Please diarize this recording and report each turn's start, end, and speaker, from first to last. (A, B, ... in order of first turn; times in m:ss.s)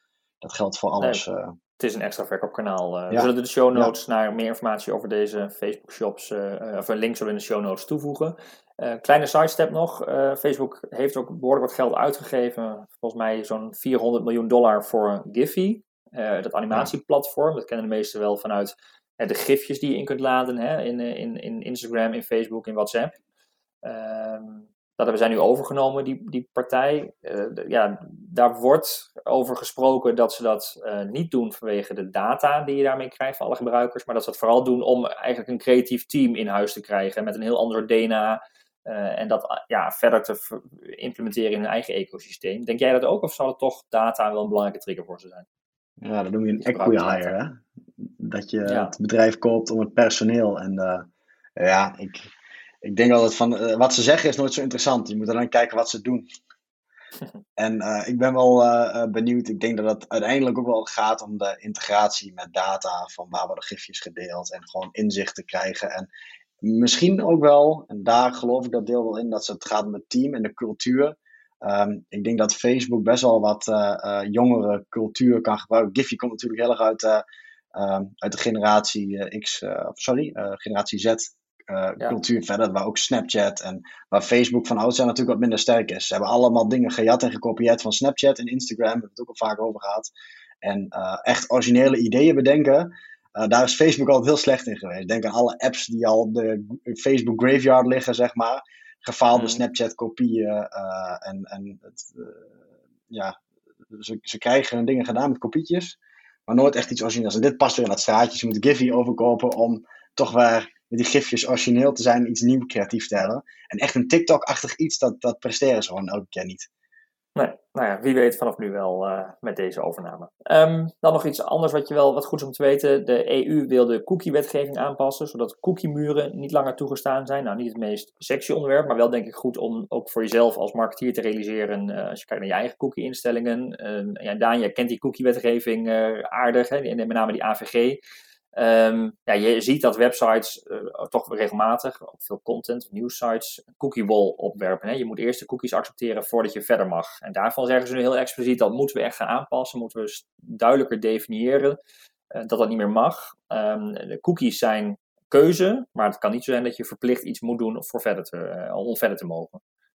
0:00.4-0:01.6 A
0:01.8-0:23.2 B
0:03.1-0:03.9 A
0:23.8-0:45.4 B
0:46.0-0:52.3 A
0:46.6-0:47.3 B
0:48.6-0:48.9 B
0:52.8-0:56.3 A
0:57.6-1:06.1 A
1:06.6-1:30.1 A
1:30.6-1:42.5 A
1:39.3-1:39.6 B
1:43.1-1:43.4 A
1:43.9-1:56.7 A
1:57.4-2:18.0 B
2:18.6-2:31.8 B
2:32.3-2:39.6 B